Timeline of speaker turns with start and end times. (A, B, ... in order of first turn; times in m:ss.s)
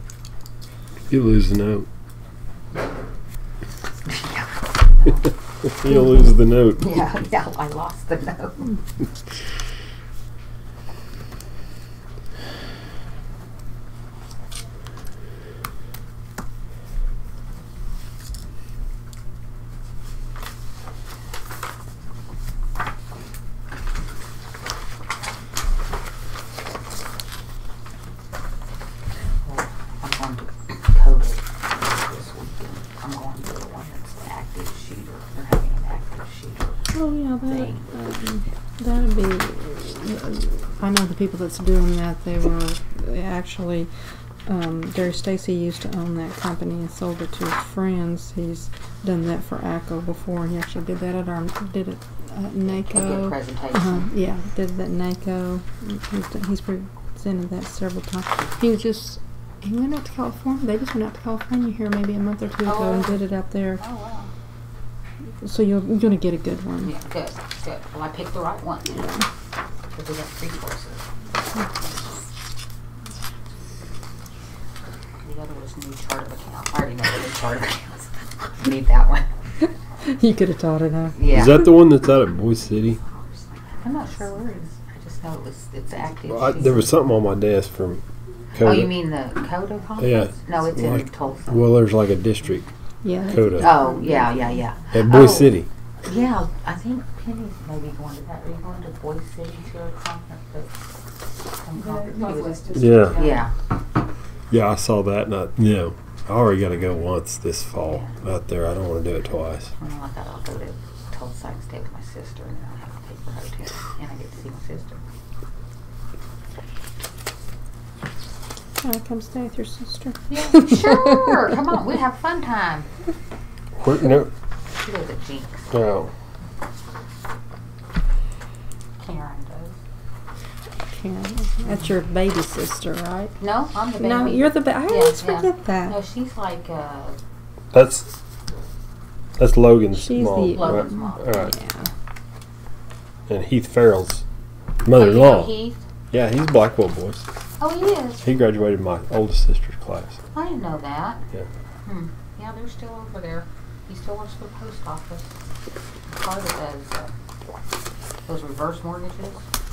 0:01.1-0:01.9 A
0:04.0-0:05.3 B
0:05.6-0:06.9 A
0:06.8-0:08.8 B
0:29.4-0:36.8 B
0:36.9-0:43.9 C
0:37.5-0:37.9 B
0:44.5-1:03.8 C
0:52.6-0:54.1 B
1:02.6-1:03.3 B
1:03.8-1:04.3 B
1:05.4-1:06.9 C
1:06.8-1:09.0 B
1:08.9-1:09.2 C
1:09.9-1:11.0 B
1:15.2-1:19.3 B
1:20.0-1:21.2 C
1:21.2-1:21.7 B
1:21.3-1:23.0 A
1:23.7-1:27.0 B
1:26.3-1:28.0 A
1:28.5-1:28.9 A
1:28.6-1:31.7 B
1:30.0-1:32.7 A
1:33.0-1:34.3 C
1:33.3-1:33.9 A
1:33.6-1:40.8 B
1:34.9-1:35.7 A
1:41.6-1:43.5 B
1:41.8-1:43.3 C
1:42.7-1:43.2 A
1:44.5-1:49.7 A
1:47.9-1:48.2 B
1:49.8-1:55.0 B
1:58.8-2:01.1 C
2:00.3-2:02.9 B
2:03.8-2:04.3 A
2:04.7-2:05.7 B
2:05.7-2:06.1 A
2:09.0-2:09.8 B
2:10.9-2:13.4 C
2:13.4-2:17.2 B
2:14.0-2:16.0 C
2:17.7-2:18.2 A
2:19.4-2:21.5 A
2:19.9-2:21.9 C
2:20.5-2:21.5 B
2:23.3-2:24.2 A
2:24.8-2:25.6 A
2:24.9-2:25.8 B
2:26.1-2:27.2 A
2:27.6-2:28.3 B
2:28.2-2:30.2 A
2:30.3-2:31.2 B
2:31.8-2:35.3 B
2:36.1-2:37.1 B
2:38.3-2:39.4 B